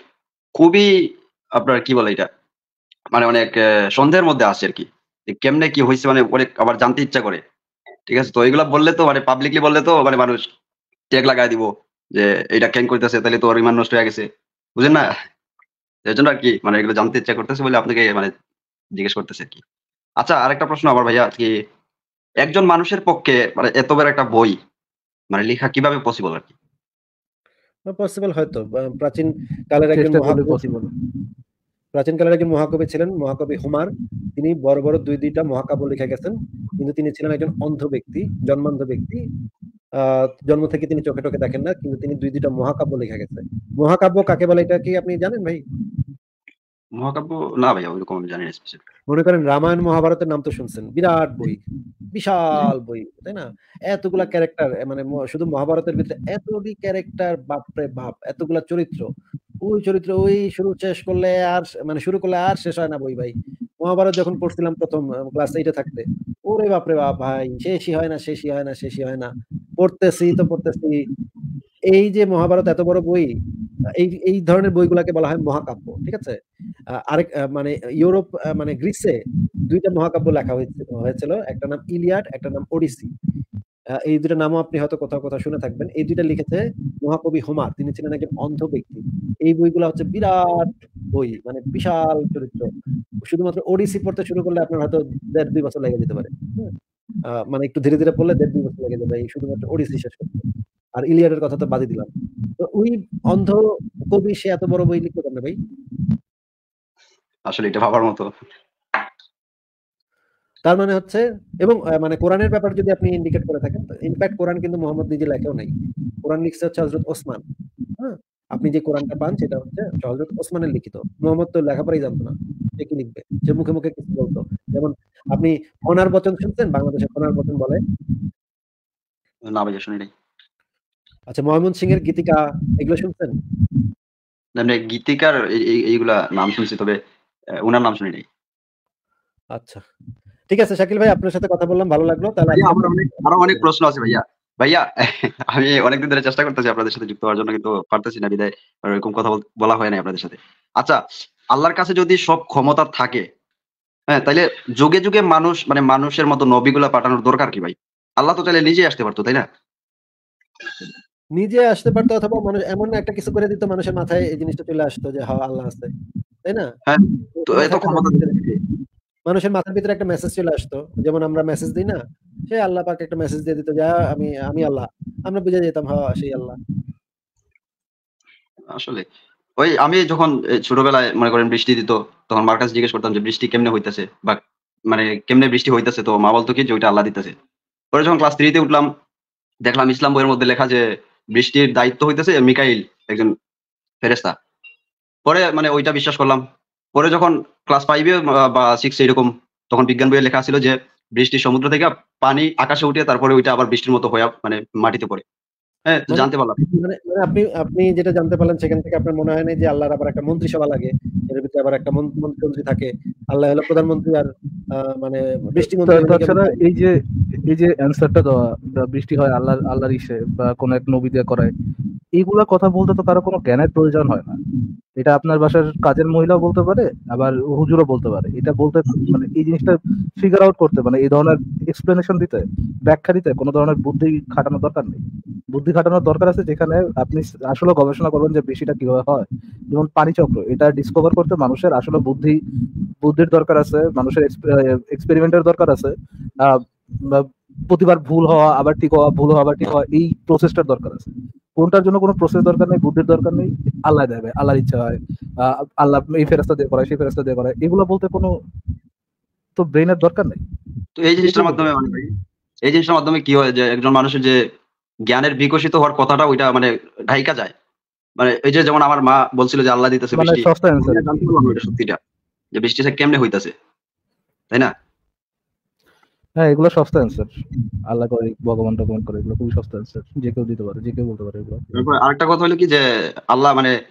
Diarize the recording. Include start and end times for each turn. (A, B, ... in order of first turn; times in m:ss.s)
0:00.6-0:00.9 A
0:01.6-0:02.3 A
0:03.1-0:07.4 A
0:08.1-0:10.4 A
0:11.1-0:15.1 A
0:16.1-0:18.3 A
0:19.0-0:19.6 A
0:20.2-0:21.5 A
0:22.4-0:24.6 A
0:25.3-0:26.5 A
0:27.9-0:30.8 B
0:29.9-0:30.9 C
0:31.9-0:39.2 B
0:40.0-0:45.6 B
0:47.0-0:48.8 A
0:49.1-0:51.6 B
0:52.1-0:59.1 B
0:59.6-1:11.0 B
1:11.9-1:13.3 B
1:14.0-1:16.4 B
1:17.1-1:19.2 B
1:19.7-1:23.1 B
1:24.1-1:32.7 B
1:33.2-1:36.7 B
1:37.4-1:40.4 B
1:41.0-1:42.1 B
1:42.6-1:45.6 B
1:47.5-1:48.3 A
1:50.7-1:55.7 B
1:56.3-1:57.4 B
1:58.0-2:07.8 B
2:09.5-2:10.1 A
2:11.3-2:13.3 B
2:14.6-2:17.0 A
2:17.6-2:18.2 A
2:19.6-2:19.8 B
2:20.5-2:23.6 B
2:22.5-2:31.0 A
2:31.5-2:33.2 A
2:34.1-2:39.5 A
2:41.4-2:45.9 B
2:46.9-2:48.6 A
2:47.4-2:48.4 B
2:49.3-2:52.0 B
2:52.5-2:56.6 B
2:58.7-2:59.0 A
2:59.6-3:07.3 A
3:07.9-3:08.9 A
3:09.7-3:13.3 A
3:14.0-3:14.4 A
3:15.3-3:16.4 A
3:17.0-3:25.2 A
3:25.9-3:26.6 A
3:26.1-3:36.6 B
3:35.6-3:36.9 C
3:37.4-3:41.5 C
3:42.2-3:44.4 C
3:45.0-3:55.0 C
3:55.5-4:02.4 C
4:03.0-4:05.9 C
4:06.4-4:18.3 C
4:19.6-4:20.4 C
4:21.0-4:22.1 A
4:21.2-4:21.7 C
4:22.6-4:24.4 A
4:25.1-4:27.5 A
4:28.2-4:32.0 A
4:30.1-4:31.2 C
4:32.6-4:33.5 A
4:36.4-4:37.3 C
4:37.9-4:41.7 C
4:41.7-4:43.8 A